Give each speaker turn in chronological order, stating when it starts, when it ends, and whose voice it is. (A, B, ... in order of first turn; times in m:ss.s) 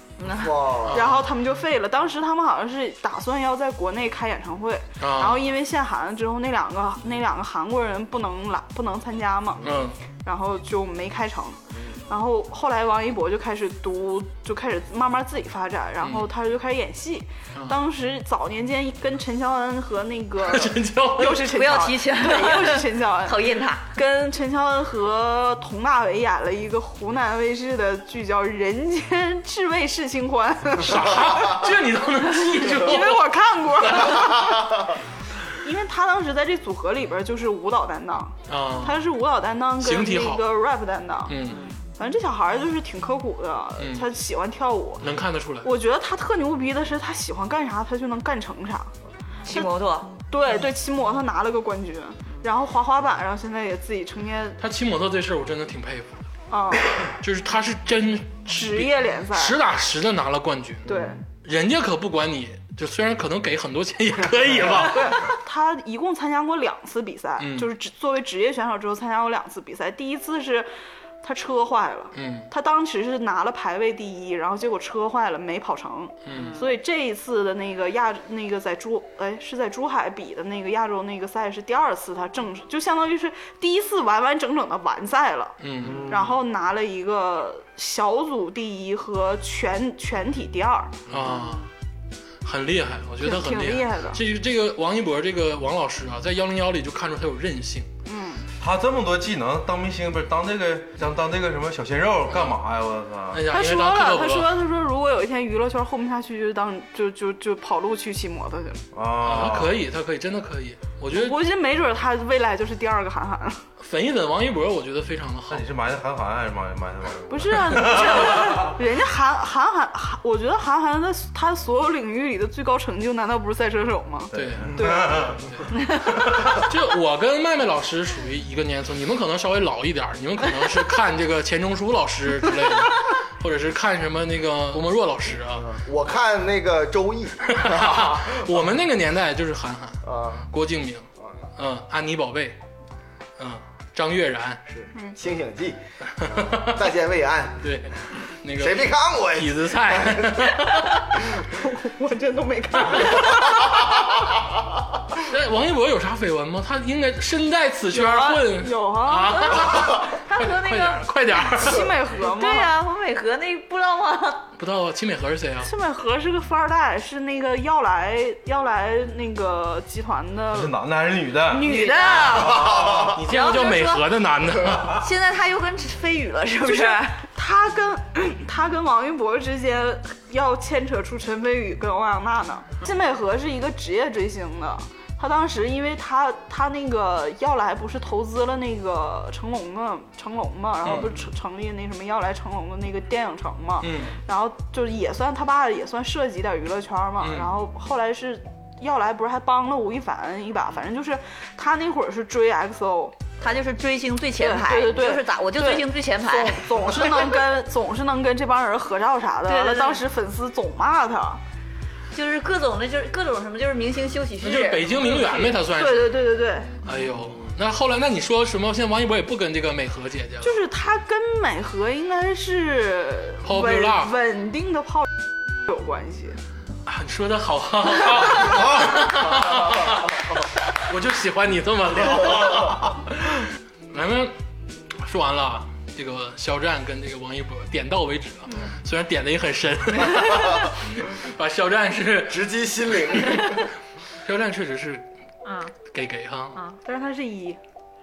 0:00.2-0:00.6 A
0:00.3-0:01.2 B
0:00.8-0:01.2 C
0:00.9-0:09.6 D
0:05.0-0:05.4 C
0:09.6-0:10.0 C
0:10.2-0:31.6 D
0:20.4-0:21.5 C
0:21.3-0:23.9 A
0:30.8-0:34.4 C
0:32.8-0:34.9 D
0:35.6-0:41.4 D
0:38.5-0:39.0 C
0:39.8-0:40.4 C
0:41.3-0:41.6 C
0:41.5-0:41.8 A
0:42.0-0:45.0 D
0:43.8-0:44.1 C
0:45.0-0:45.7 C
0:45.6-0:48.9 D
0:49.4-0:50.1 A
0:50.3-0:54.6 D
0:54.6-0:56.2 C
0:56.5-0:56.9 D
0:57.1-1:00.9 C
0:58.5-0:59.6 D
1:00.9-1:01.2 D
1:01.4-1:05.3 C
1:04.7-1:10.7 D
1:07.4-1:07.7 C
1:11.2-1:25.6 D
1:12.2-1:12.5 C
1:16.3-1:16.6 C
1:16.3-1:16.6 A
1:25.6-1:26.1 C
1:25.8-1:26.3 B
1:26.1-1:30.9 D
1:31.1-1:31.7 C
1:31.3-1:31.6 A
1:32.4-1:37.9 C
1:33.2-1:34.2 D
1:38.1-1:38.5 D
1:38.6-1:43.4 E
1:42.3-1:42.6 C
1:43.3-1:44.5 C
1:43.5-1:48.8 D
1:48.9-1:49.8 E
1:49.2-1:51.4 C
1:51.1-1:53.6 D
1:53.8-1:55.6 C
1:55.5-1:58.8 E
1:57.3-2:05.3 D
2:04.3-2:05.4 E
2:04.3-2:15.7 C
2:15.6-2:18.4 B
2:17.5-2:21.1 C
2:20.0-2:20.5 B
2:21.6-2:22.6 C
2:23.4-2:24.6 C
2:24.7-2:27.6 B
2:26.2-2:26.8 C
2:27.6-2:31.2 C
2:28.6-2:30.5 B
2:31.4-2:33.7 D
2:32.9-2:33.4 C
2:35.2-2:41.9 C
2:37.9-2:40.0 D
2:39.9-2:41.1 A
2:41.5-2:42.7 D
2:42.2-2:44.5 A
2:44.6-2:45.7 C
2:45.6-2:50.7 D
2:50.5-2:51.7 E
2:51.5-2:52.6 D
2:51.6-2:54.1 A
2:52.5-2:53.2 B
2:52.6-2:53.2 E
2:53.1-2:55.0 C
2:54.9-2:57.2 A
2:56.6-3:23.3 D
3:10.8-3:11.1 C
3:13.8-3:14.2 C
3:17.2-3:17.5 C
3:23.4-3:27.4 A
3:24.4-3:31.4 D
3:29.5-3:30.0 A
3:32.1-3:35.4 A
3:34.4-3:36.2 C
3:35.1-3:36.7 D
3:36.8-3:40.6 C
3:40.4-3:45.1 D
3:43.4-3:44.1 C
3:45.7-3:46.4 D
3:46.8-3:50.2 C
3:48.4-3:49.2 E
3:50.7-3:54.3 C
3:55.0-4:02.5 C
4:02.3-4:03.6 B
4:03.1-4:03.5 C
4:04.2-4:05.1 C
4:05.5-4:05.7 A
4:05.9-4:06.6 C
4:06.8-4:07.6 D